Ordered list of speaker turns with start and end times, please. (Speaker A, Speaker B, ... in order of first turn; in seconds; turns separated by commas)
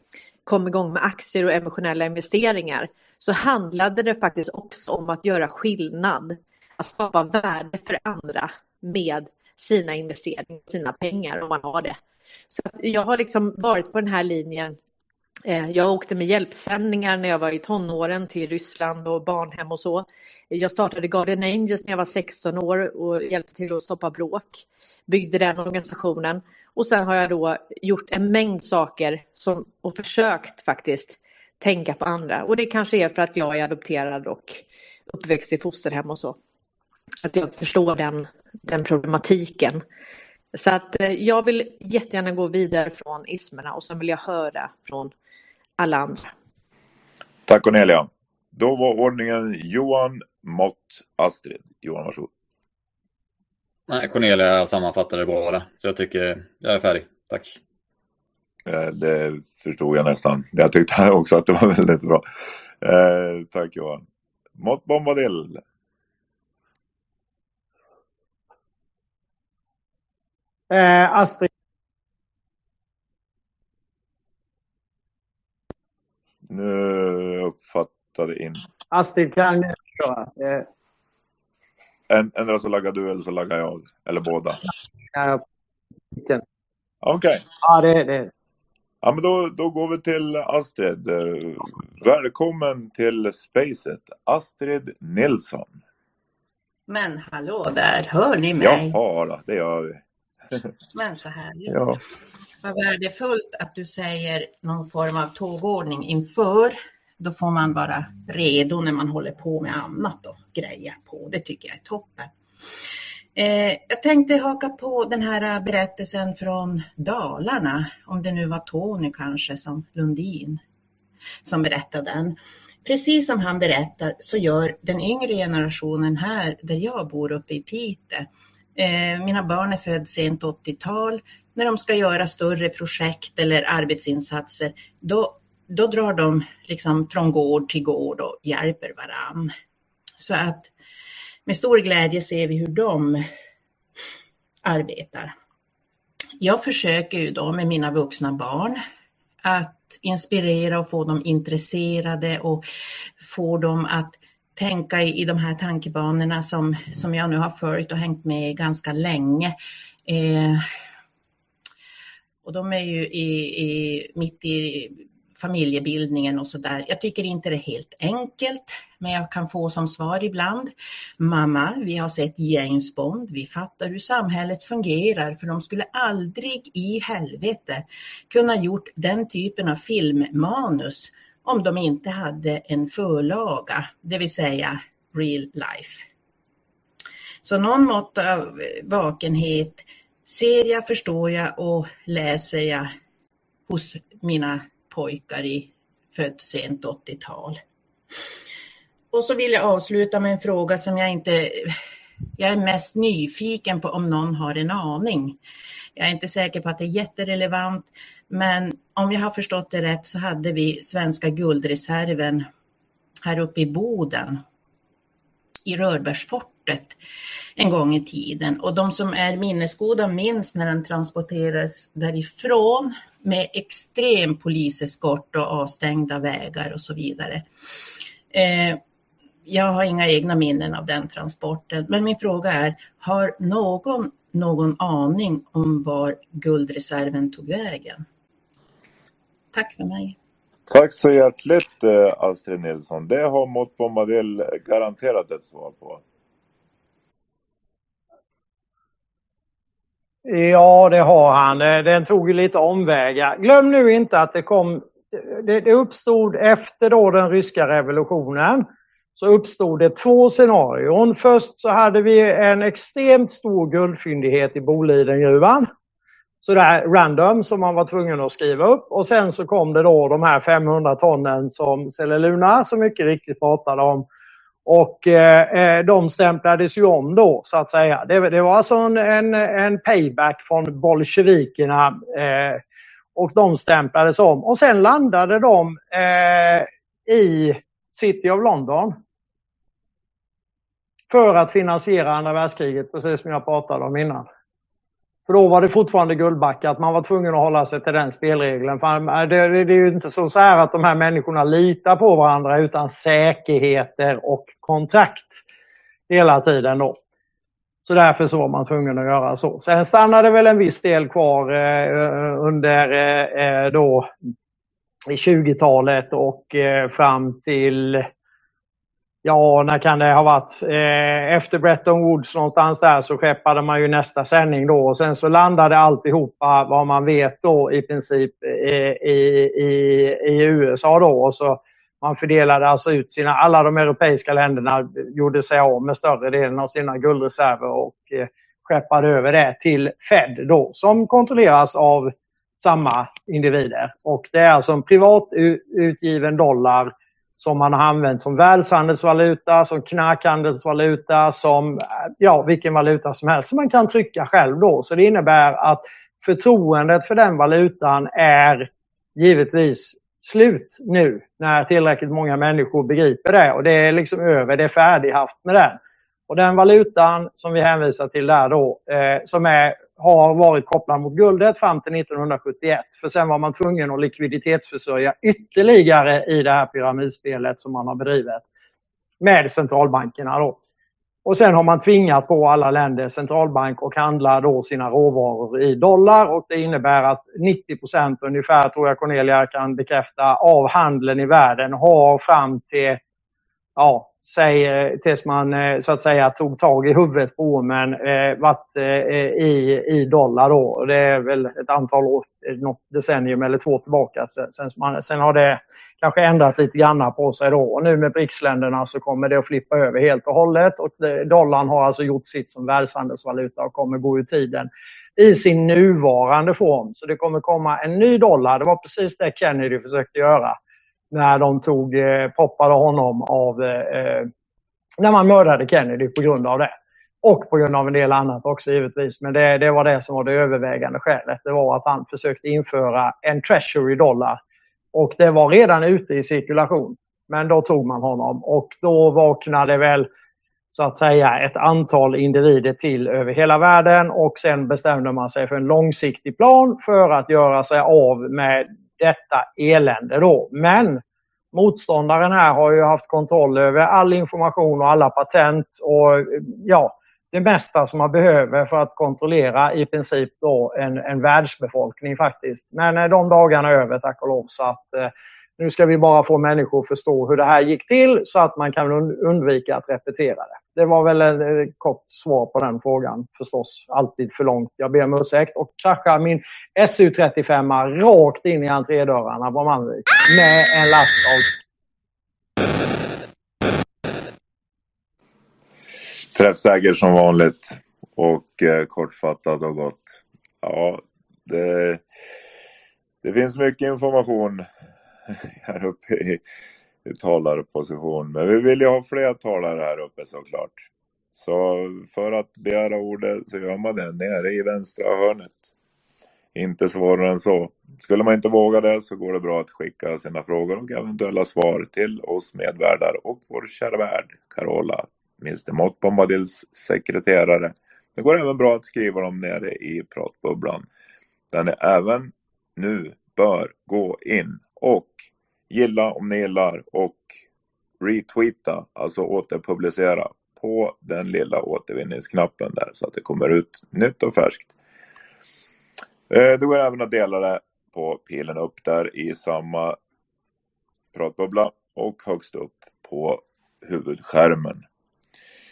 Speaker A: 0.5-12.0, Speaker A: 12.5-14.8, Speaker A: 15.4-36.4, Speaker A: 37.2-39.8, Speaker A: 40.5-45.1, Speaker A: 45.8-46.3, Speaker B: 47.5-52.3, Speaker C: 53.9-57.6, Speaker B: 58.7-62.2, Speaker B: 62.8-64.0, Speaker B: 64.6-65.6, Speaker D: 70.7-71.5, Speaker B: 76.5-78.6, Speaker D: 78.9-80.7, Speaker B: 82.1-84.6, Speaker D: 85.1-85.4, Speaker D: 86.1-86.4, Speaker B: 87.0-87.5, Speaker D: 87.6-88.3, Speaker B: 89.0-95.7, Speaker E: 96.9-99.0, Speaker B: 98.6-100.7, Speaker E: 101.0-101.8, Speaker B: 101.7-102.0, Speaker E: 102.6-112.3, Speaker E: 113.4-120.6, Speaker E: 121.4-139.5, Speaker E: 140.2-140.7, Speaker E: 141.5-143.3, Speaker E: 144.6-145.3, Speaker E: 146.4-148.8, Speaker E: 149.4-152.7, Speaker E: 153.2-159.6, Speaker E: 160.1-160.6, Speaker E: 162.4-186.1, Speaker E: 187.4-192.9, Speaker E: 193.7-197.6, Speaker E: 199.1-201.8, Speaker E: 202.4-205.4, Speaker E: 206.0-212.5, Speaker E: 213.3-214.4, Speaker E: 215.7-217.0, Speaker E: 217.6-227.5, Speaker E: 228.3-228.8, Speaker E: 229.5-238.1, Speaker E: 239.5-240.2, Speaker B: 240.7-246.0, Speaker D: 250.3-265.7, Speaker D: 266.4-274.1, Speaker D: 274.7-282.6, Speaker D: 283.2-289.0, Speaker D: 291.1-294.3, Speaker D: 295.3-305.4, Speaker D: 306.1-307.0, Speaker D: 307.9-314.1, Speaker D: 315.1-318.1, Speaker D: 319.2-378.4, Speaker D: 379.2-380.6, Speaker D: 381.2-393.0, Speaker D: 393.8-420.6, Speaker D: 421.1-424.3, Speaker D: 425.0-434.4, Speaker D: 434.9-440.1, Speaker D: 440.7-451.0, Speaker D: 451.5-481.5, Speaker B: 486.3-492.0, Speaker B: 493.2-494.7, Speaker B: 495.3-496.4, Speaker B: 497.1-505.7, Speaker B: 506.6-520.9, Speaker B: 521.5-527.4, Speaker B: 528.0-534.7, Speaker B: 536.3-540.0, Speaker B: 541.1-544.8